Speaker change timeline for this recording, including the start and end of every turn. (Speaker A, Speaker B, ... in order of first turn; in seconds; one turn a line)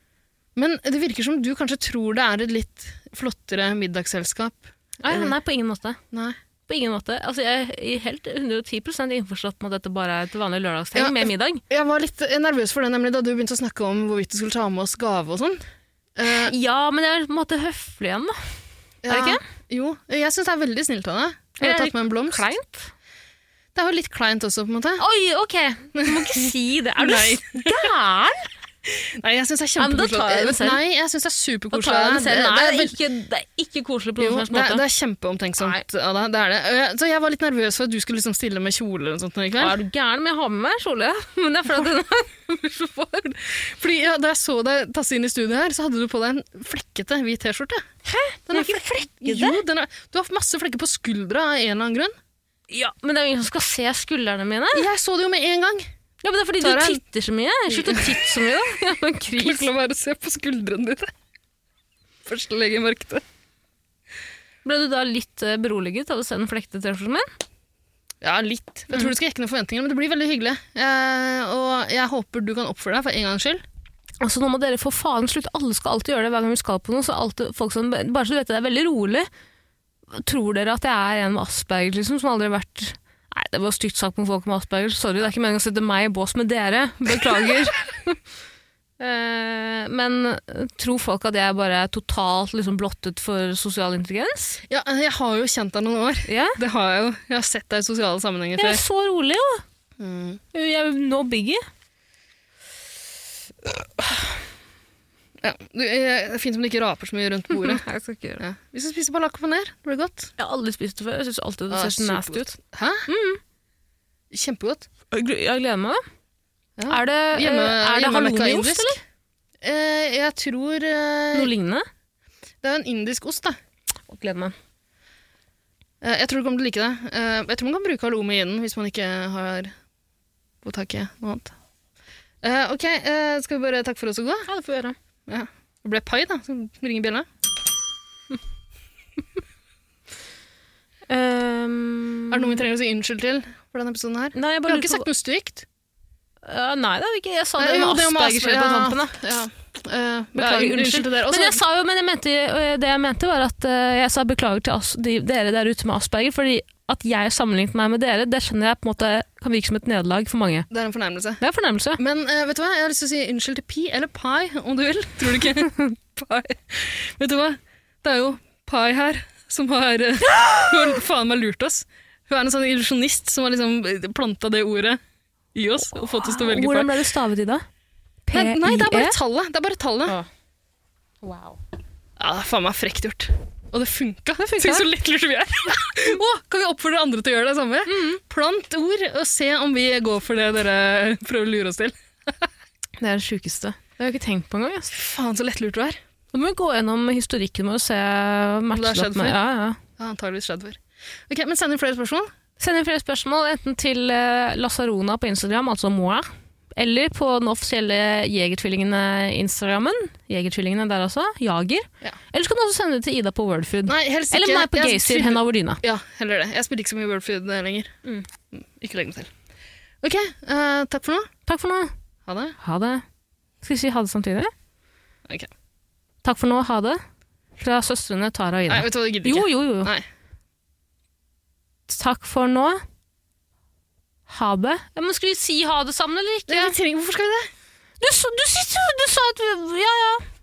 Speaker A: 0.6-5.3
Speaker B: 5.0-6.0
Speaker A: 6.1-6.4
Speaker B: 6.7-11.6
Speaker A: 10.9-15.6
Speaker A: 16.1-16.5
Speaker B: 16.3-18.3
Speaker A: 19.0-22.5
Speaker B: 19.1-19.4
Speaker B: 21.6-22.9
Speaker A: 23.7-25.0
Speaker B: 25.0-28.5
Speaker A: 25.9-27.9
Speaker A: 28.8-33.0
Speaker B: 29.8-30.8
Speaker B: 31.7-34.8
Speaker A: 34.2-39.8
Speaker B: 39.6-43.5
Speaker A: 43.5-47.8
Speaker B: 48.1-49.6
Speaker A: 48.5-52.1
Speaker B: 52.7-54.9
Speaker A: 54.7-55.9
Speaker B: 56.2-59.7
Speaker A: 56.6-57.0
Speaker A: 57.7-58.5
Speaker A: 59.3-61.1
Speaker A: 62.2-63.2
Speaker B: 64.6-67.2
Speaker A: 68.2-73.6
Speaker B: 74.2-79.3
Speaker B: 80.1-88.2
Speaker B: 89.0-94.6
Speaker A: 94.7-98.8
Speaker B: 96.2-96.6
Speaker B: 98.5-99.6
Speaker A: 100.0-100.4
Speaker B: 100.5-101.6
Speaker A: 105.4-107.8
Speaker B: 107.5-108.4
Speaker A: 108.4-110.3
Speaker B: 110.4-112.5
Speaker A: 111.7-113.1
Speaker B: 113.1-113.4
Speaker A: 114.3-114.9
Speaker B: 115.1-116.0
Speaker A: 116.8-119.0
Speaker B: 116.9-119.0
Speaker A: 119.6-121.5
Speaker B: 121.3-121.8
Speaker A: 122.6-123.6
Speaker B: 124.1-124.5
Speaker A: 126.0-129.7
Speaker A: 130.6-131.5
Speaker A: 132.4-134.5
Speaker B: 134.5-134.9
Speaker A: 135.3-137.3
Speaker B: 141.1-142.6
Speaker A: 142.3-145.7
Speaker B: 144.3-145.1
Speaker B: 146.4-149.2
Speaker A: 147.6-151.6
Speaker B: 150.3-160.7
Speaker A: 160.7-161.4
Speaker B: 161.4-162.0
Speaker A: 162.0-175.0
Speaker A: 175.5-177.0
Speaker B: 176.2-177.6
Speaker B: 178.3-179.2
Speaker A: 178.3-180.2
Speaker B: 181.2-181.6
Speaker A: 182.2-192.5
Speaker B: 184.4-184.8
Speaker B: 187.8-188.2
Speaker B: 193.0-194.9
Speaker A: 194.9-196.0
Speaker B: 196.3-199.8
Speaker A: 198.7-199.4
Speaker A: 200.0-202.3
Speaker B: 202.6-215.8
Speaker A: 213.8-217.9
Speaker A: 218.5-219.3
Speaker A: 220.0-221.3
Speaker B: 221.5-221.9
Speaker A: 222.2-222.6
Speaker B: 222.6-223.0
Speaker B: 223.6-224.5
Speaker B: 226.2-227.0
Speaker B: 227.6-229.9
Speaker A: 228.7-230.1
Speaker B: 231.9-232.8
Speaker B: 234.3-236.7
Speaker A: 236.5-237.5
Speaker B: 238.0-240.2